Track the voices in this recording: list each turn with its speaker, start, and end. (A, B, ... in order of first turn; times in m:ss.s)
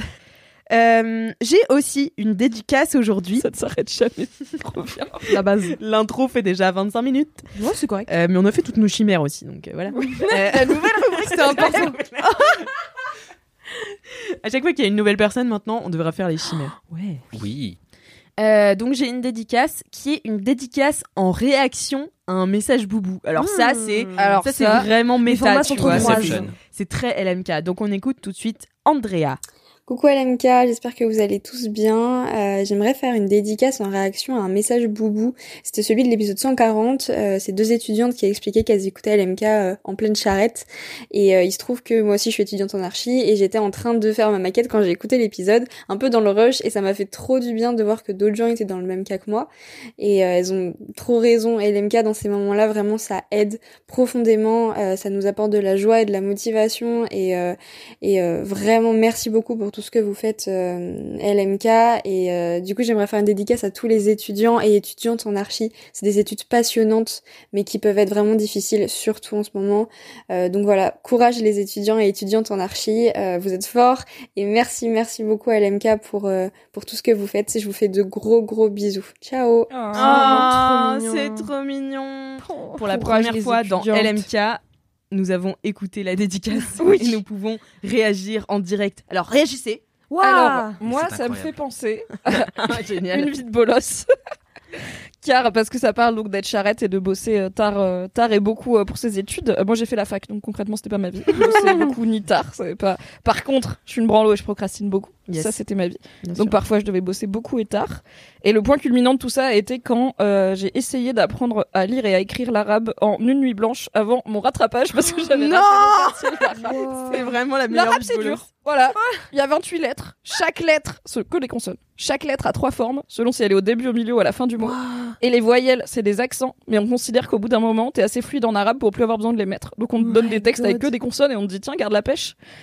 0:00.7-0:03.4 A
0:03.4-0:05.4 B
0:05.3-0:05.8 C
0:05.6-0:07.5 A
0:07.5-0:08.1 C
0:08.1-0:12.7 A
0:09.9-0:12.0 C
0:11.3-0:11.9 B
0:13.7-0:16.7 A
0:16.7-0:17.2 C
0:17.3-0:17.8 D
0:18.4-0:29.4 A
0:23.4-0:26.5 C
0:24.2-0:24.9 B
0:25.7-0:26.6 D
0:29.9-1:19.8 E
1:19.7-1:20.5 B
1:19.9-1:21.5 C
1:19.9-1:29.8 A
1:22.5-1:24.3 B
1:26.8-1:27.2 B
1:30.1-1:30.8 C
1:30.2-1:34.1 B
1:30.8-1:31.5 D
1:32.3-1:33.3 A
1:35.2-2:12.3 B
1:45.3-1:45.5 A
1:46.2-1:46.5 A
1:55.3-1:56.4 A
1:56.6-1:57.3 C
1:57.1-1:58.4 A
1:59.0-1:59.2 C
2:04.6-2:05.2 C
2:10.0-2:10.9 C